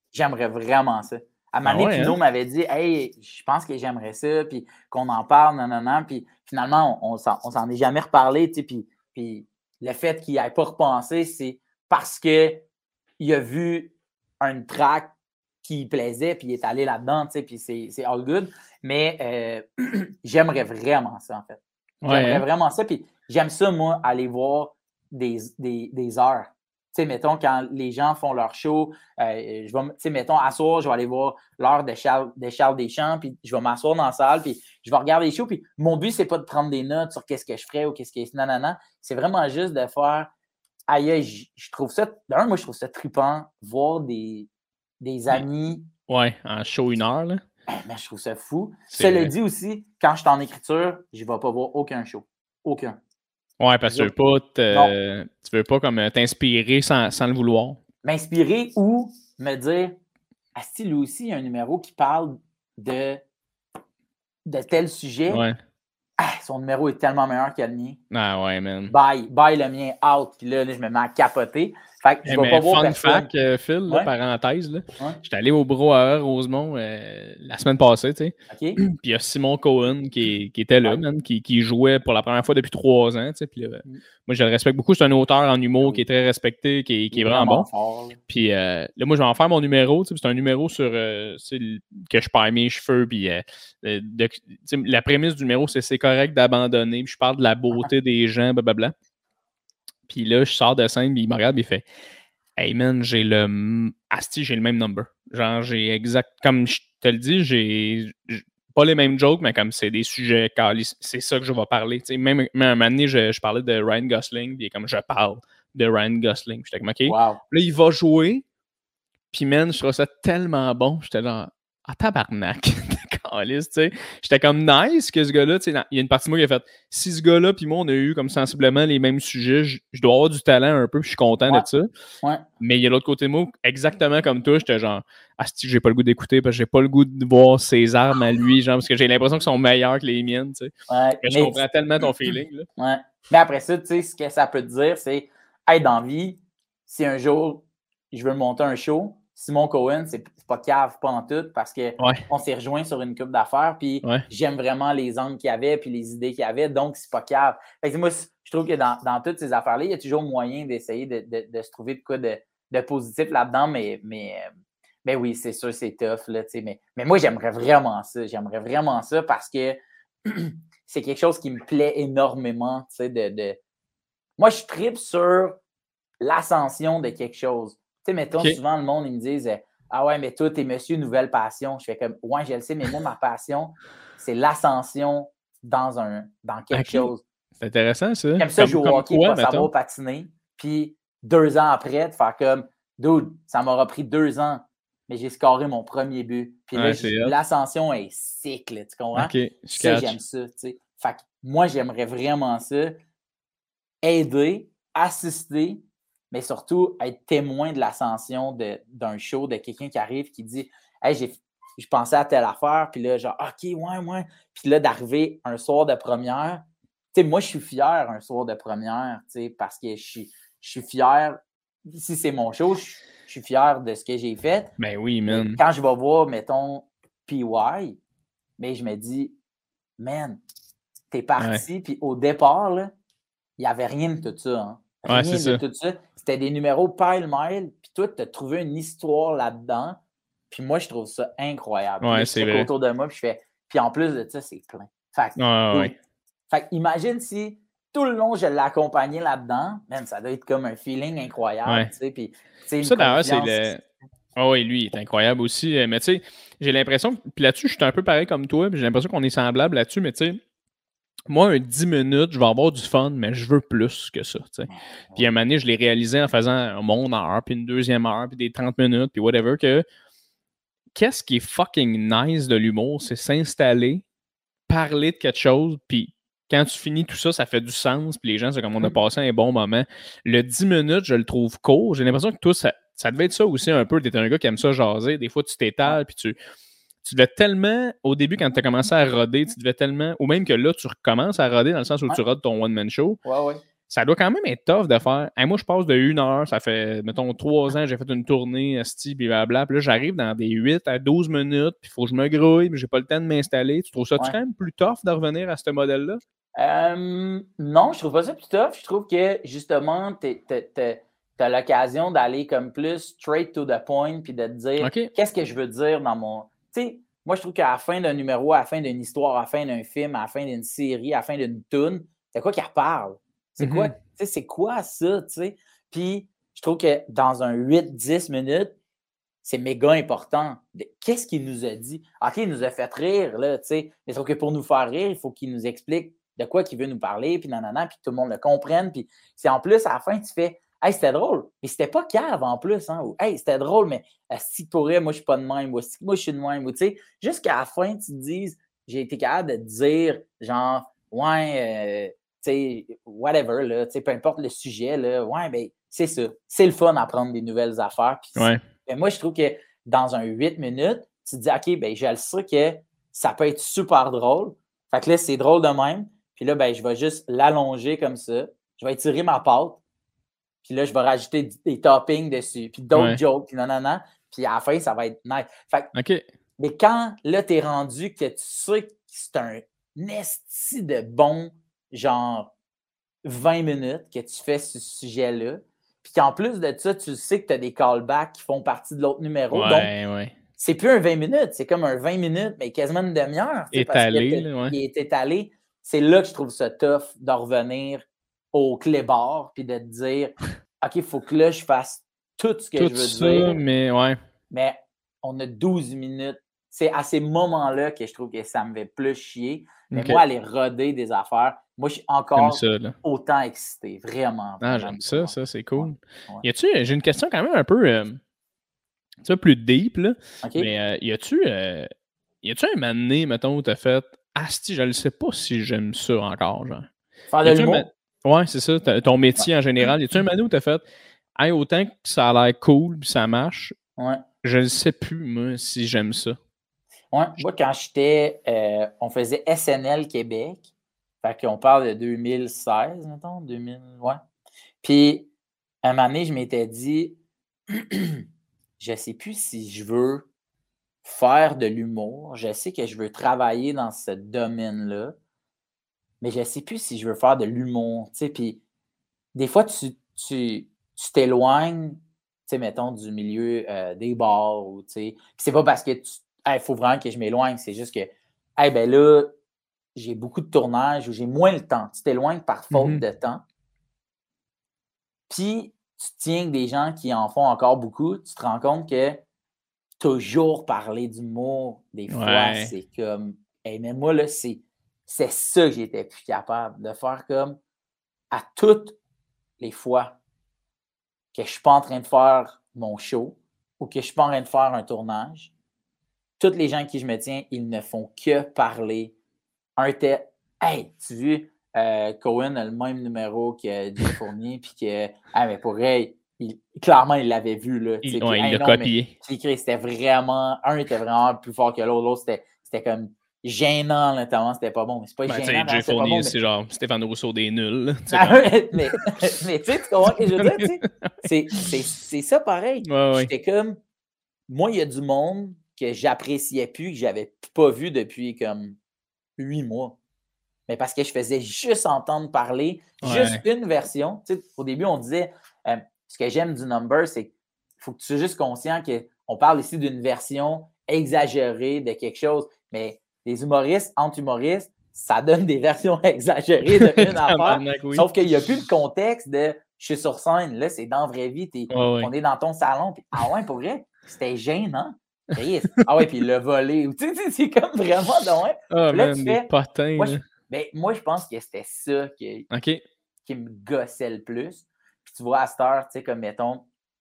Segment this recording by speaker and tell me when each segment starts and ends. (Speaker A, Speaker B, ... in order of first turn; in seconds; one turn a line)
Speaker A: 0.1-12.7
Speaker B: 1.6-2.2
Speaker A: 13.2-40.3
Speaker B: 22.0-22.4
Speaker A: 40.9-45.9
Speaker B: 46.1-47.4
Speaker A: 47.7-53.0
Speaker B: 48.9-49.3
Speaker B: 53.6-57.8
Speaker A: 58.0-60.0
Speaker A: 60.5-63.2
Speaker A: 64.5-65.4
Speaker B: 65.3-65.6
Speaker A: 66.2-68.0
Speaker B: 68.1-68.9
Speaker A: 68.9-73.3
Speaker B: 72.2-87.7
Speaker A: 78.5-78.8
Speaker A: 87.1-88.2
Speaker B: 88.3-98.9
Speaker B: 100.1-101.8
Speaker B: 102.5-118.4
Speaker A: 117.0-117.4
Speaker B: 119.3-131.9
Speaker B: 132.6-142.7
Speaker A: 140.9-141.6
Speaker A: 142.2-164.5
Speaker B: 152.0-152.2
Speaker A: 165.0-173.6
Speaker A: 174.4-175.6
Speaker A: 176.2-187.2
Speaker B: 186.7-187.1
Speaker B: 187.6-189.7
Speaker A: 188.4-202.9
Speaker B: 196.7-197.3
Speaker B: 199.1-200.2
Speaker A: 204.0-224.7
Speaker B: 224.8-225.6
Speaker A: 225.3-228.0
Speaker A: 228.6-229.3
Speaker A: 230.0-230.4
Speaker A: 231.1-232.9
Speaker B: 231.4-231.6
Speaker A: 233.6-245.9
Speaker B: 235.1-235.6
Speaker B: 242.0-242.7
Speaker B: 245.4-245.9
Speaker A: 246.5-253.7
Speaker B: 251.7-251.9
Speaker B: 252.8-253.8
Speaker B: 254.3-260.4
Speaker B: 261.3-269.8
Speaker A: 264.7-265.3
Speaker B: 270.9-274.0
Speaker B: 274.7-286.4
Speaker B: 287.0-293.2
Speaker A: 293.2-293.6
Speaker B: 293.9-306.2
Speaker A: 306.5-328.8
Speaker B: 314.8-315.1
Speaker B: 323.6-323.9
Speaker A: 329.4-369.8
Speaker B: 358.4-358.6
Speaker A: 370.6-375.9
Speaker B: 372.9-373.2
Speaker B: 375.9-376.2
Speaker A: 376.6-382.5
Speaker A: 383.2-389.9
Speaker B: 389.5-390.3
Speaker A: 390.6-403.6
Speaker B: 393.7-394.8
Speaker B: 402.8-404.2
Speaker A: 404.5-416.4
Speaker B: 409.9-410.2
Speaker B: 412.4-412.9
Speaker B: 414.6-418.2
Speaker B: 419.2-421.9
Speaker A: 420.4-420.7
Speaker B: 422.4-426.9
Speaker A: 427.3-427.9
Speaker B: 427.4-430.8
Speaker B: 431.4-433.8
Speaker A: 434.0-434.2
Speaker B: 434.4-436.4
Speaker A: 437.1-440.7
Speaker A: 441.2-444.2
Speaker A: 444.8-445.3
Speaker A: 445.8-447.2
Speaker A: 447.7-448.2
Speaker A: 448.8-450.3
Speaker A: 451.0-455.1
Speaker A: 456.2-458.6
Speaker A: 459.3-469.4
Speaker A: 469.9-473.4
Speaker B: 472.7-473.0
Speaker A: 475.3-479.2
Speaker A: 480.0-487.6
Speaker B: 482.1-482.7
Speaker A: 488.3-489.0
Speaker A: 489.6-490.2
Speaker A: 491.3-495.5
Speaker A: 496.4-499.1
Speaker A: 499.8-516.3
Speaker B: 508.0-509.1
Speaker B: 515.3-519.0
Speaker A: 518.1-523.8
Speaker B: 520.4-521.7
Speaker B: 522.8-523.3
Speaker A: 524.5-528.8
Speaker A: 529.4-530.0
Speaker A: 530.7-562.5
Speaker B: 533.0-533.4
Speaker B: 546.7-548.1
Speaker B: 551.7-552.1
Speaker B: 558.7-560.2
Speaker B: 562.5-562.8
Speaker A: 563.2-566.7